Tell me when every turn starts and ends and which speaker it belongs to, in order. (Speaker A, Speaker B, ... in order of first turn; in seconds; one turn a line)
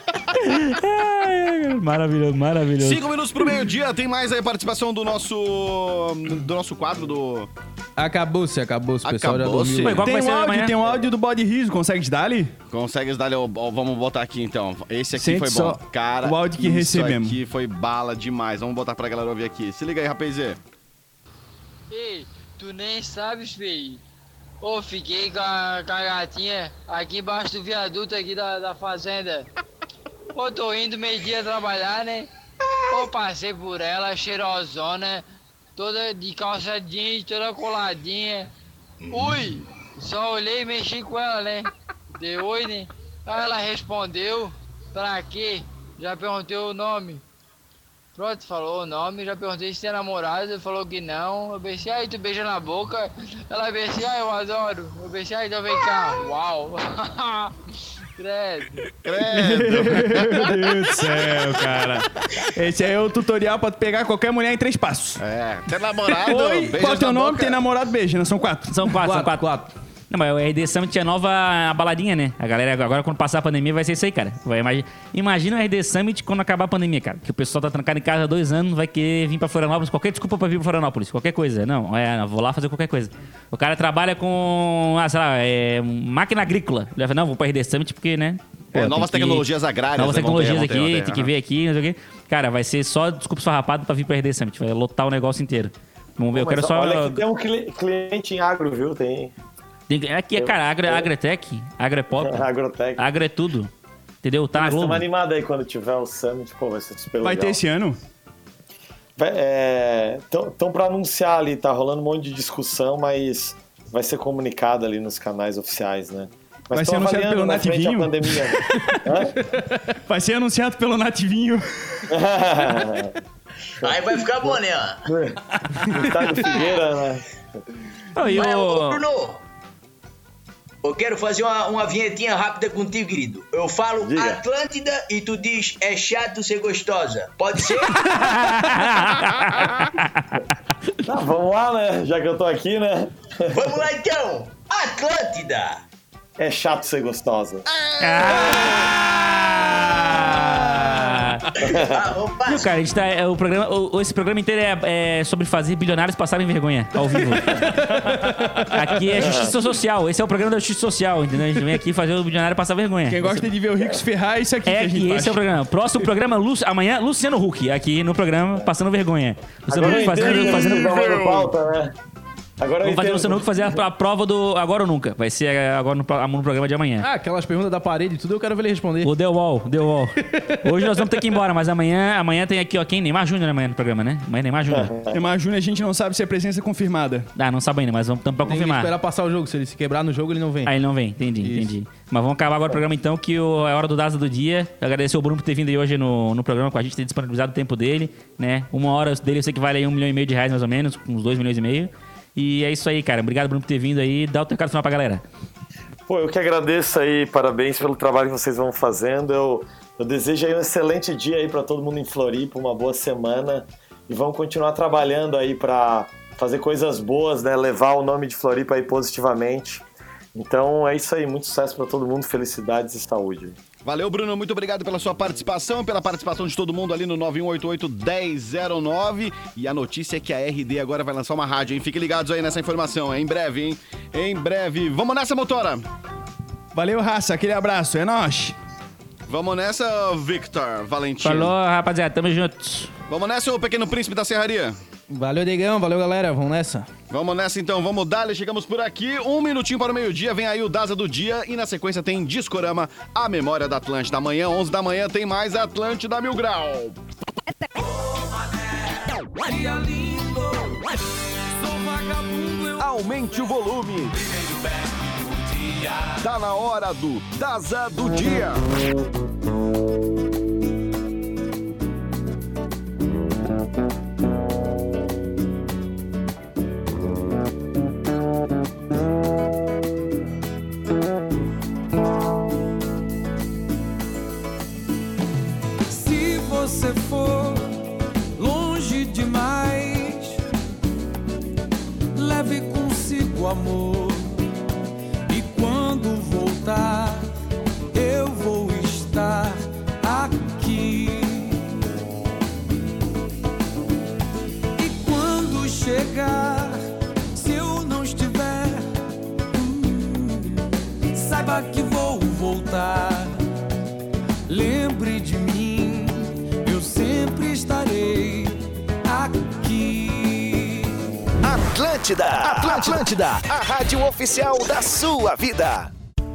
Speaker A: 0.3-3.0
Speaker B: 2.8-7.5
Speaker C: 8.0-10.0
Speaker B: 9.0-10.0
Speaker A: 9.8-10.8
Speaker D: 10.0-12.5
Speaker B: 12.7-20.6
Speaker D: 15.2-17.4
Speaker E: 21.9-24.0
Speaker E: 24.6-29.5
Speaker E: 30.4-32.3
Speaker E: 32.9-35.2
Speaker E: 35.8-38.5
Speaker E: 39.1-47.2
Speaker E: 48.2-57.5
Speaker E: 58.2-58.9
Speaker B: 59.0-61.0
Speaker D: 59.3-65.2
Speaker B: 65.2-67.6
Speaker D: 66.1-69.0
Speaker A: 68.7-69.5
Speaker C: 69.0-69.7
Speaker A: 70.1-97.2
Speaker B: 88.7-91.3
Speaker F: 96.3-99.3
Speaker A: 99.9-102.5
Speaker F: 100.4-101.1
Speaker F: 102.2-103.0
Speaker A: 103.0-103.7
Speaker A: 104.2-105.1
Speaker F: 104.5-107.6
Speaker D: 107.2-108.0
Speaker F: 109.2-119.4
Speaker D: 116.7-118.9
Speaker D: 120.1-122.0
Speaker F: 122.1-123.2
Speaker F: 123.8-127.2
Speaker G: 123.8-125.1
Speaker G: 126.4-126.8
Speaker A: 128.2-129.0
Speaker G: 128.3-129.4
Speaker G: 130.8-138.2
Speaker F: 134.0-134.4
Speaker A: 137.9-140.5
Speaker F: 141.0-143.6
Speaker G: 143.5-145.8
Speaker F: 146.4-147.7
Speaker B: 147.7-149.1
Speaker A: 148.0-151.5
Speaker B: 149.7-151.0
Speaker F: 151.6-152.1
Speaker G: 151.7-152.8
Speaker A: 152.4-158.0
Speaker C: 157.9-158.5
Speaker A: 158.6-163.5
Speaker F: 159.1-159.6
Speaker D: 163.1-165.4
Speaker A: 164.7-171.0
Speaker F: 169.7-171.9
Speaker B: 169.8-171.5
Speaker F: 172.6-173.8
Speaker A: 172.8-177.1
Speaker C: 177.0-179.1
Speaker A: 179.0-184.9
Speaker C: 180.2-180.5
Speaker F: 184.7-185.2
Speaker D: 185.1-187.3
Speaker A: 187.4-188.9
Speaker C: 188.4-190.7
Speaker A: 190.7-205.2
Speaker C: 191.4-191.7
Speaker F: 206.1-219.8
Speaker F: 220.3-223.6
Speaker B: 223.8-235.8
Speaker D: 236.7-238.6
Speaker B: 239.3-241.5
Speaker A: 241.2-242.9
Speaker B: 243.1-244.8
Speaker C: 245.1-246.9
Speaker B: 247.1-257.0
Speaker H: 257.8-261.0
Speaker H: 261.5-263.5
Speaker B: 262.8-264.2
Speaker H: 264.2-266.2
Speaker B: 266.2-268.6
Speaker H: 285.9-287.8
Speaker H: 288.4-290.4
Speaker H: 292.1-294.4
Speaker H: 295.3-297.3
Speaker H: 297.9-301.7
Speaker H: 304.8-306.8
Speaker H: 307.3-308.9
Speaker H: 309.5-313.4
Speaker H: 314.5-320.9
Speaker I: 321.4-325.9